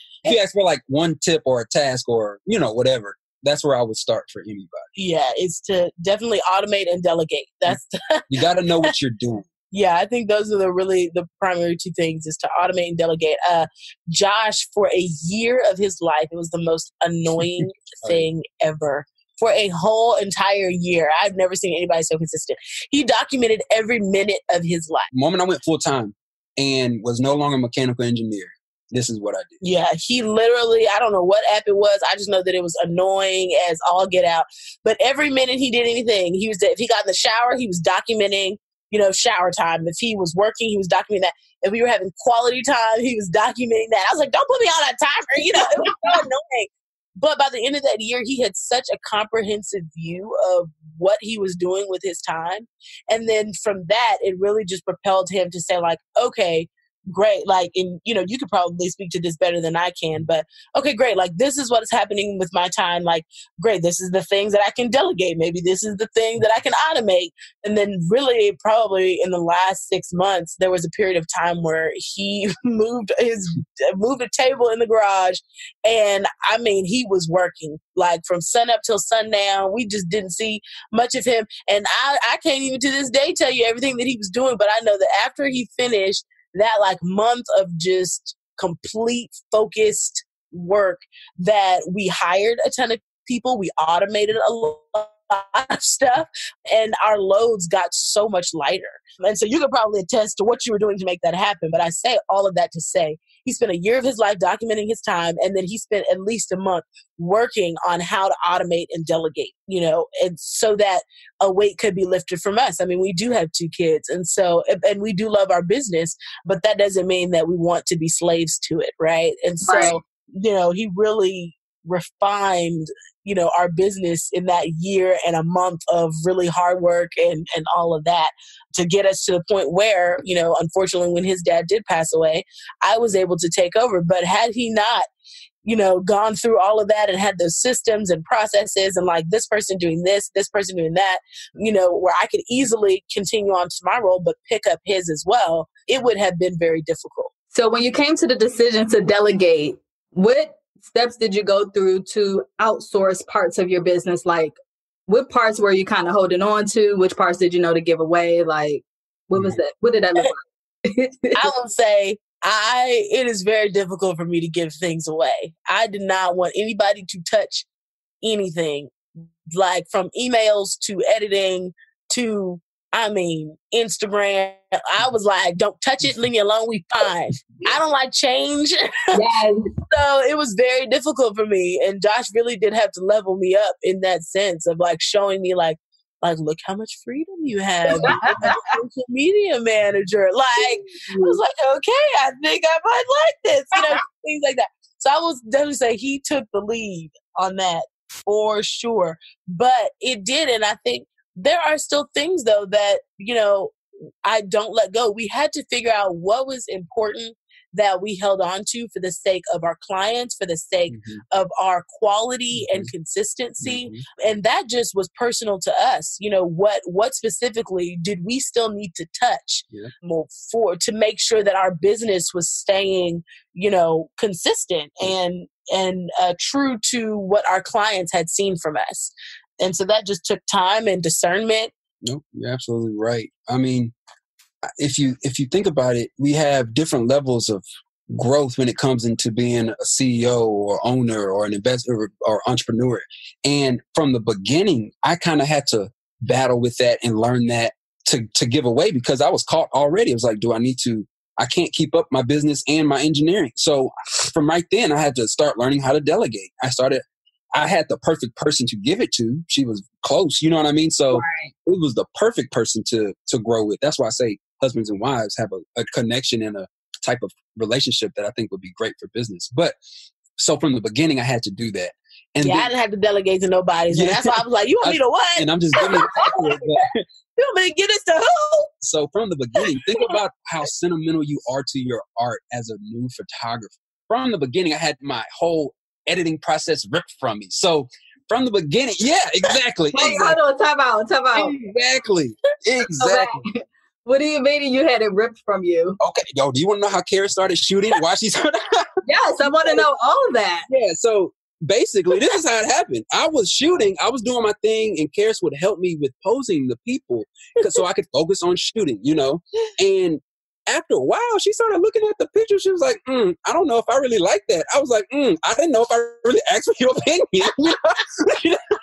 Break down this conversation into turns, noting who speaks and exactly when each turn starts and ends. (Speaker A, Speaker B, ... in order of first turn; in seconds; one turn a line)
Speaker A: 0.2-4.9
Speaker B: 5.0-8.3
Speaker A: 8.3-9.4
Speaker B: 9.7-25.1
Speaker A: 17.6-18.3
Speaker A: 25.1-29.6
Speaker B: 29.6-135.1
Speaker C: 119.6-120.0
Speaker B: 135.6-147.3
Speaker C: 147.5-161.4
Speaker B: 161.3-167.7
Speaker B: 168.2-168.9
Speaker B: 169.5-179.2
Speaker C: 179.1-179.7
Speaker B: 179.9-231.7
Speaker C: 187.9-188.6
Speaker C: 190.9-191.4
Speaker A: 210.9-211.2
Speaker A: 212.5-212.9
Speaker A: 213.6-214.0
Speaker A: 232.0-233.9
Speaker A: 234.8-257.0
Speaker A: 257.5-269.8
Speaker C: 261.1-261.5
Speaker A: 270.4-272.7
Speaker B: 272.4-276.8
Speaker A: 273.9-276.9
Speaker B: 277.4-278.7
Speaker A: 278.8-290.4
Speaker C: 289.9-291.5
Speaker A: 291.3-293.3
Speaker C: 293.0-296.0
Speaker A: 296.0-298.8
Speaker C: 299.1-300.7
Speaker A: 300.7-318.6